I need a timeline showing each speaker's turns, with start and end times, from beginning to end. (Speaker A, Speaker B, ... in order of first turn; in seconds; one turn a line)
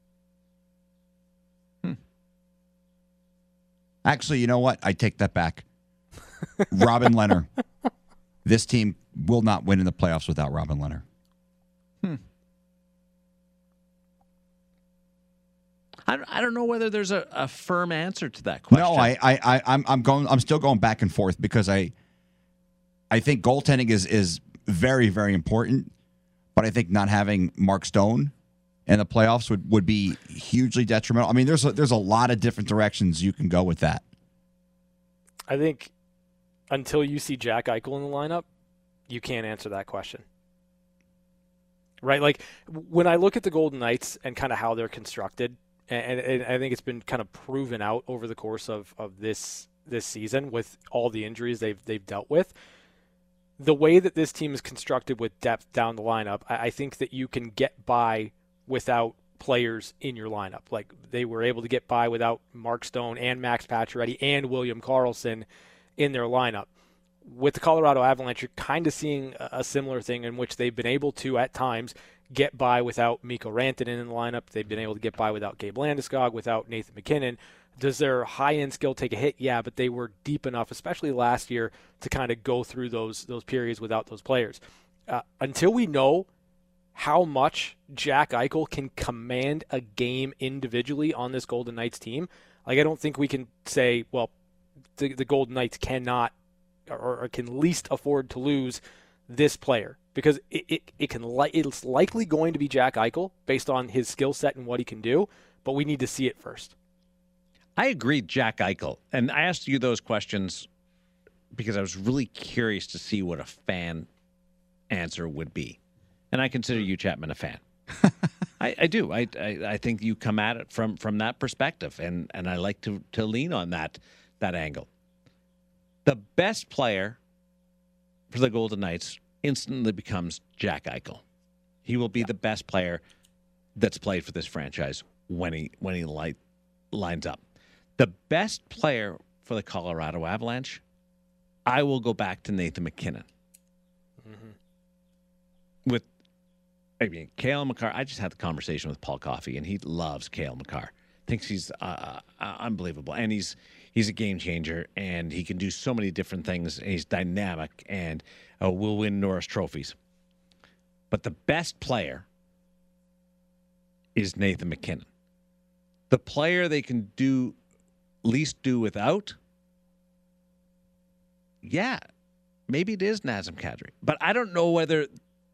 Speaker A: 4.0-5.6
Speaker A: 6.7-7.5
Speaker A: 8.4-11.0
Speaker B: 16.1-19.1
Speaker A: 18.7-21.9
Speaker A: 23.1-25.9
Speaker A: 26.6-28.3
Speaker A: 28.9-34.0
Speaker C: 35.5-35.9
Speaker C: 36.7-38.5
Speaker C: 39.1-40.2
Speaker C: 42.0-52.5
Speaker C: 53.6-66.7
Speaker C: 67.2-86.3
Speaker C: 87.0-94.3
Speaker C: 95.0-96.3
Speaker C: 96.9-106.7
Speaker B: 107.8-110.7
Speaker B: 111.5-114.1
Speaker B: 114.9-115.8
Speaker B: 116.3-117.6
Speaker B: 118.6-124.9
Speaker B: 126.0-127.2
Speaker B: 128.3-131.2
Speaker B: 131.8-133.0
Speaker B: 133.8-136.4
Speaker B: 136.9-137.4
Speaker B: 138.0-140.8
Speaker B: 141.7-143.3
Speaker C: 144.2-144.5
Speaker B: 147.0-159.9
Speaker B: 161.1-162.2
Speaker B: 164.2-165.1
Speaker B: 166.1-167.6
Speaker B: 168.2-169.4
Speaker B: 171.6-172.0
Speaker B: 172.7-175.1